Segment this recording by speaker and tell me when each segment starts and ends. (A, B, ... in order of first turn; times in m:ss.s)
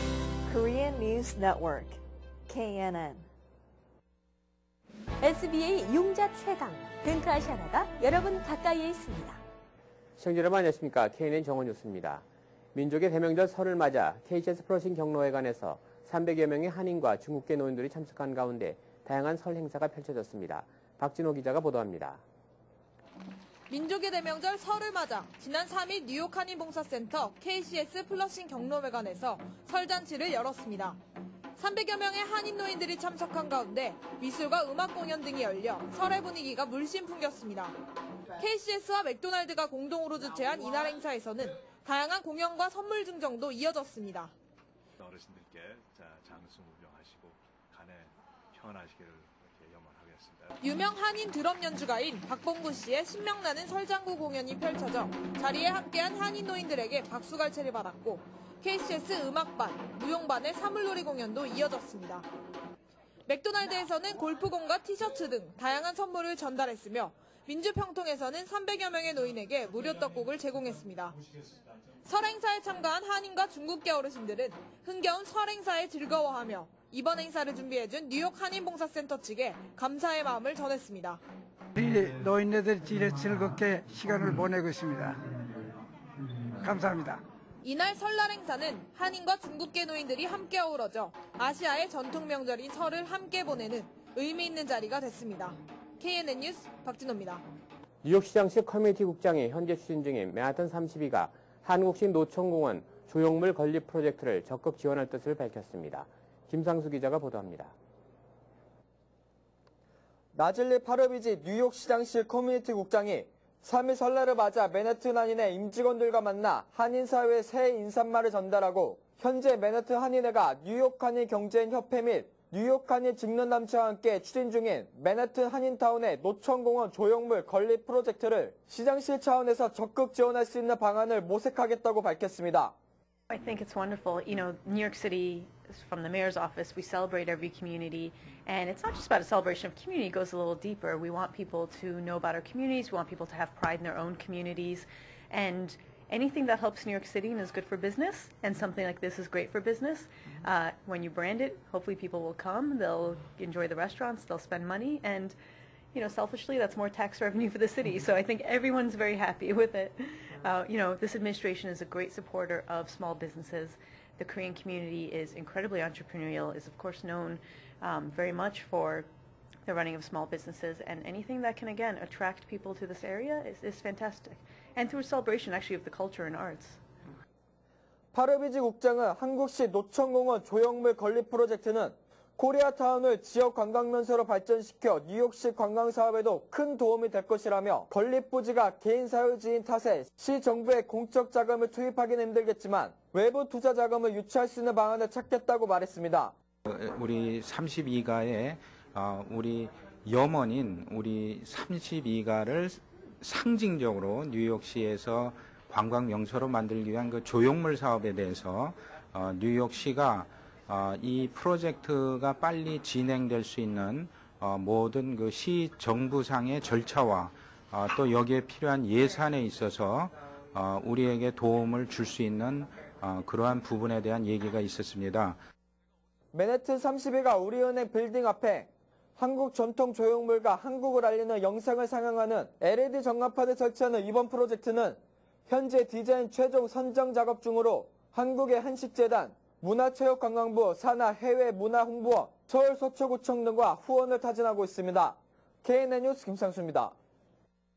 0:00.4-0:03.3 A
0:05.2-0:09.4 B
0:10.2-0:22.2 C
0:23.7-0:31.0 D
0:31.6-0:37.8 D
0:38.4-0:44.3 D
0:45.0-0:50.6 E
0:50.6-1:02.3 D
1:03.3-1:11.2 D
1:12.0-1:21.2 D
1:21.8-1:25.3 F
1:26.6-1:27.2 F
1:27.6-1:37.4 D
1:38.0-1:47.7 C
1:50.3-2:12.7 G
2:13.3-2:35.4 H
2:35.9-2:49.1 H
2:49.7-2:56.8 H
2:58.1-3:16.3 G
3:16.6-3:45.4 I
3:46.3-4:07.0 G